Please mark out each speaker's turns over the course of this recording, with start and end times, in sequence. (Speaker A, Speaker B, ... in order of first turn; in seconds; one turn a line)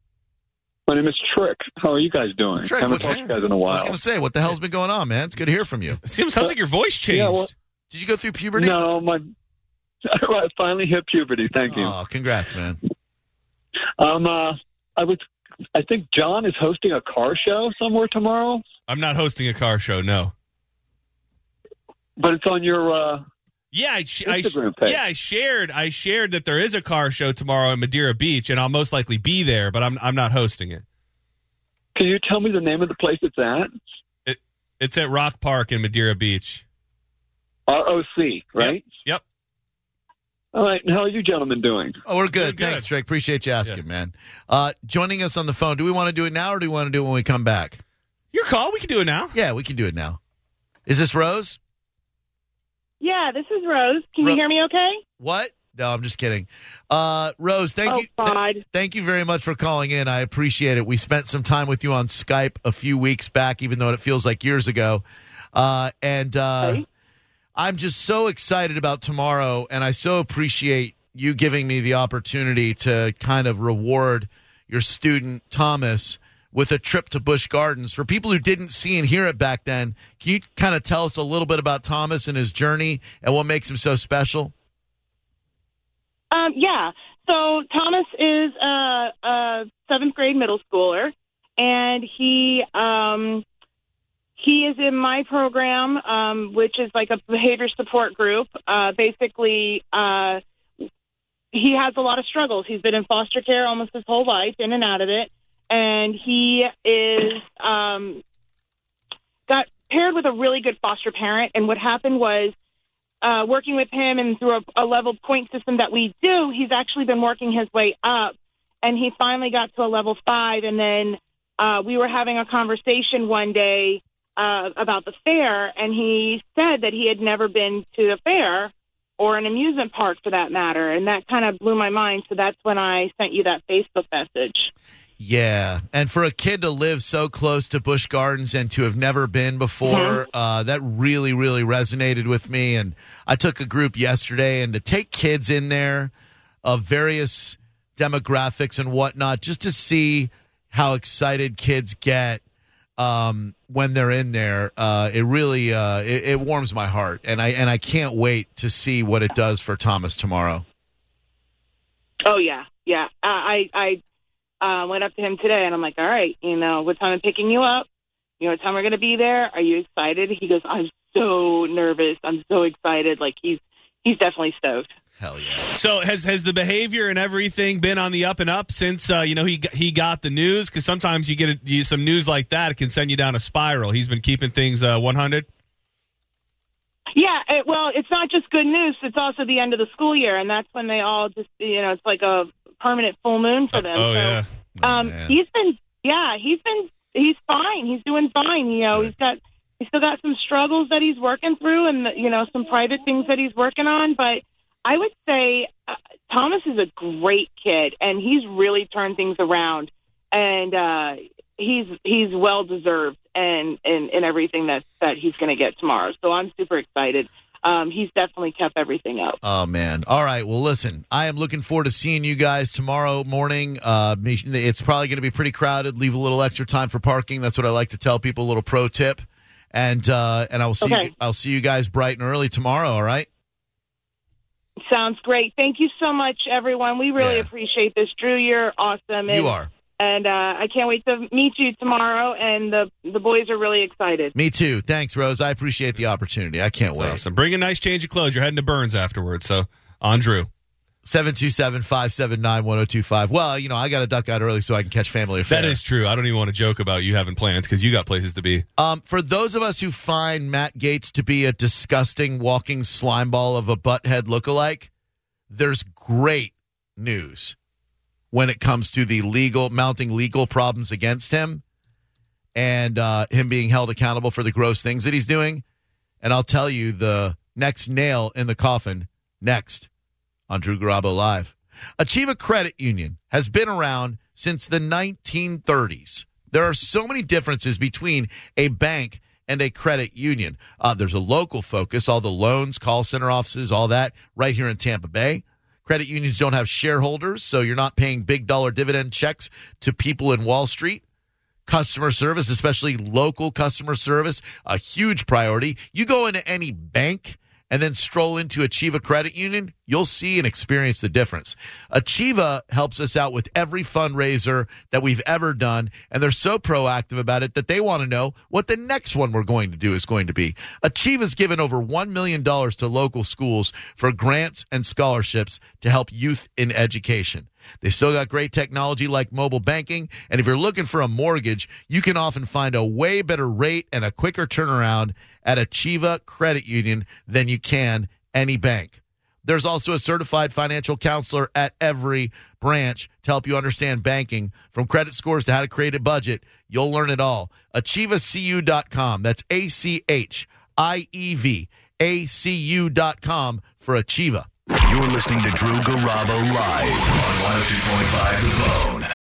Speaker A: 0.9-4.0
Speaker B: 2.6-6.0
Speaker C: 2.9-3.3
Speaker C: 6.0-7.5
Speaker A: 7.1-7.5
Speaker B: 7.9-8.8
Speaker A: 8.6-9.3
Speaker A: 10.1-11.9
Speaker B: 11.7-12.8
Speaker A: 14.0-18.6
Speaker C: 18.9-20.3
Speaker A: 22.2-23.2
Speaker C: 23.7-30.8
Speaker A: 24.2-25.0
Speaker A: 31.9-33.8
Speaker C: 34.2-36.6
Speaker A: 37.7-38.9
Speaker C: 38.6-39.2
Speaker A: 40.5-42.0
Speaker B: 42.0-47.8
Speaker C: 42.3-42.9
Speaker C: 48.3-49.3
Speaker B: 49.3-50.2
Speaker B: 50.9-51.6
Speaker D: 53.0-55.0
Speaker B: 55.2-65.0
Speaker D: 57.9-58.6
Speaker B: 65.5-66.8
Speaker B: 67.5-84.5
Speaker D: 86.3-93.4
Speaker D: 94.4-100.4
Speaker D: 101.5-108.2
Speaker D: 109.5-112.5
Speaker D: 113.2-134.7
Speaker B: 135.2-146.1
Speaker D: 139.8-140.2
Speaker B: 146.6-152.4
Speaker B: 153.0-160.6
Speaker D: 162.2-164.0
Speaker D: 164.6-167.8
Speaker D: 168.4-174.9
Speaker B: 175.2-175.7
Speaker C: 175.7-185.5
Speaker D: 187.2-219.4
Speaker C: 193.7-194.5
Speaker B: 194.8-195.3
Speaker B: 219.4-233.3
Speaker D: 230.8-231.1
Speaker D: 234.9-244.3
Speaker B: 237.2-237.5
Speaker B: 239.3-239.7
Speaker B: 244.3-247.2
Speaker C: 246.9-250.5
Speaker B: 251.0-255.8
Speaker C: 255.5-258.6
Speaker B: 258.8-264.9
Speaker B: 265.5-267.6
Speaker B: 268.3-271.6
Speaker B: 272.5-275.6
Speaker B: 276.2-279.9
Speaker B: 280.5-301.0
Speaker B: 301.6-354.5
Speaker E: 354.8-359.1